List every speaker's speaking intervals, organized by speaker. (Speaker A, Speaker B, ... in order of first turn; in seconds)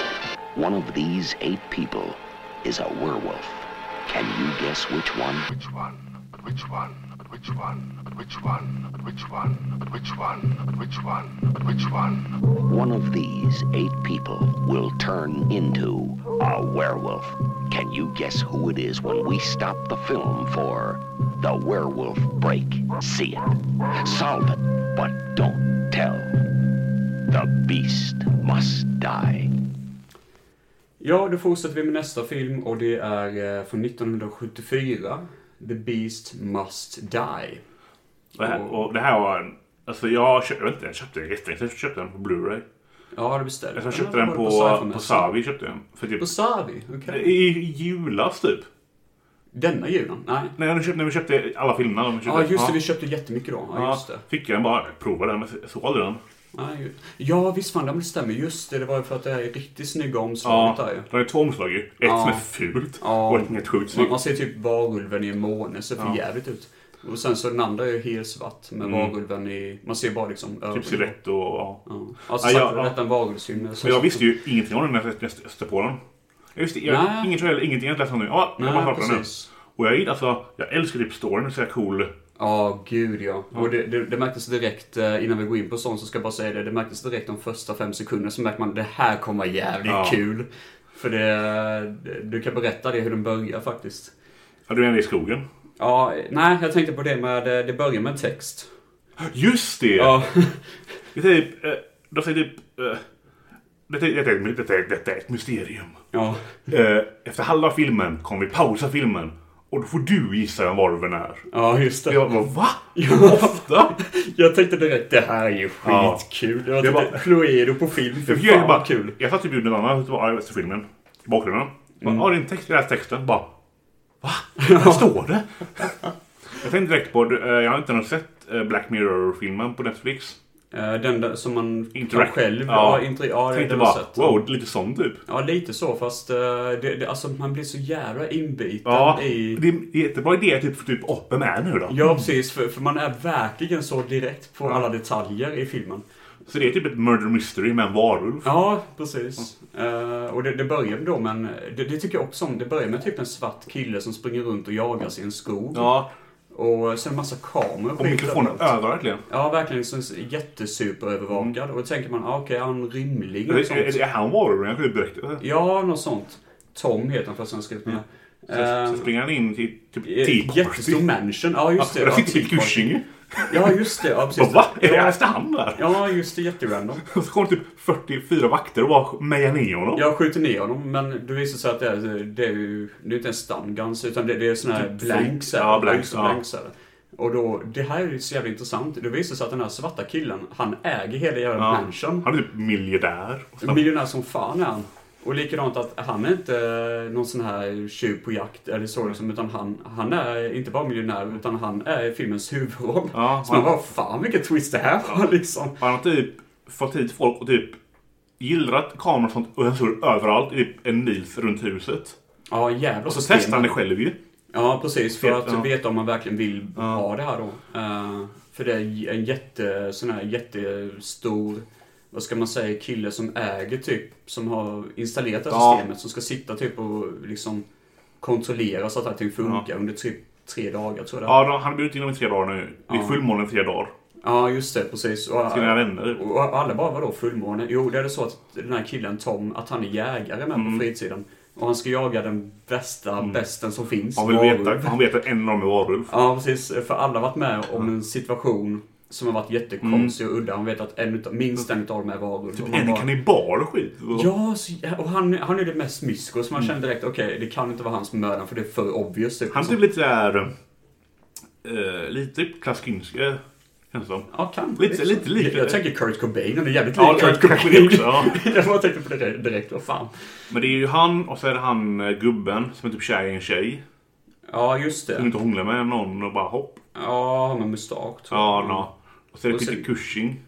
Speaker A: 0.5-5.5, 12.6-26.4, 27.3-29.5
Speaker B: 5.5-12.6
Speaker C: 31.0-37.6, 38.4-38.8, 43.1-45.3, 46.2-47.3, 49.5-50.5, 52.2-54.2, 56.5-61.1, 62.0-62.5, 63.0-71.1, 71.8-74.3, 76.8-77.3, 78.6-79.5, 82.4-94.1, 95.8-98.7, 100.0-100.8, 106.1-106.6, 111.5-119.2, 124.6-125.1, 130.7-134.4, 135.3-139.6, 141.9-146.0, 148.4-155.9, 156.5-158.7, 159.3-164.0, 165.4-169.1, 170.0-172.9, 173.5-175.2, 175.7-177.0, 179.9-192.3, 193.6-205.8, 212.5-213.8, 214.5-227.6, 228.2-231.4, 232.9-233.2, 234.2-244.9, 246.1-253.1, 254.1-259.8, 264.3-270.2, 274.5-275.3, 276.9-278.9, 279.5-279.8
Speaker D: 38.4-42.6, 43.8-46.3, 47.1-48.7, 50.6-52.8, 53.7-56.2, 60.4-64.1, 68.8-69.1, 70.7-71.8, 72.4-73.0, 73.7-76.0, 76.5-82.1, 89.8-90.2, 94.7-95.4, 99.2-100.1, 101.1-103.0, 103.9-106.0, 106.7-111.4, 112.1-113.9, 115.8-116.2, 116.8-117.3, 118.2-123.5, 124.2-126.0, 126.5-130.4, 131.9-135.2, 138.8-142.3, 146.5-148.5, 155.7-156.1, 158.0-159.2, 163.5-165.4, 168.5-171.1, 171.8-173.8, 174.3-176.1, 177.1-180.0, 184.7-186.4, 191.6-193.8, 203.1-203.7, 205.8-207.8, 208.4-212.2, 213.1-214.2, 215.2-215.7, 216.8-217.0, 225.5-225.8, 231.3-233.9, 235.5-236.2, 240.5-240.8, 244.2-246.1, 249.8-250.1, 252.6-254.3, 259.5-260.5, 261.6-263.4, 263.9-265.8, 267.0-268.4, 270.5-273.8, 275.2-276.8, 278.3-280.4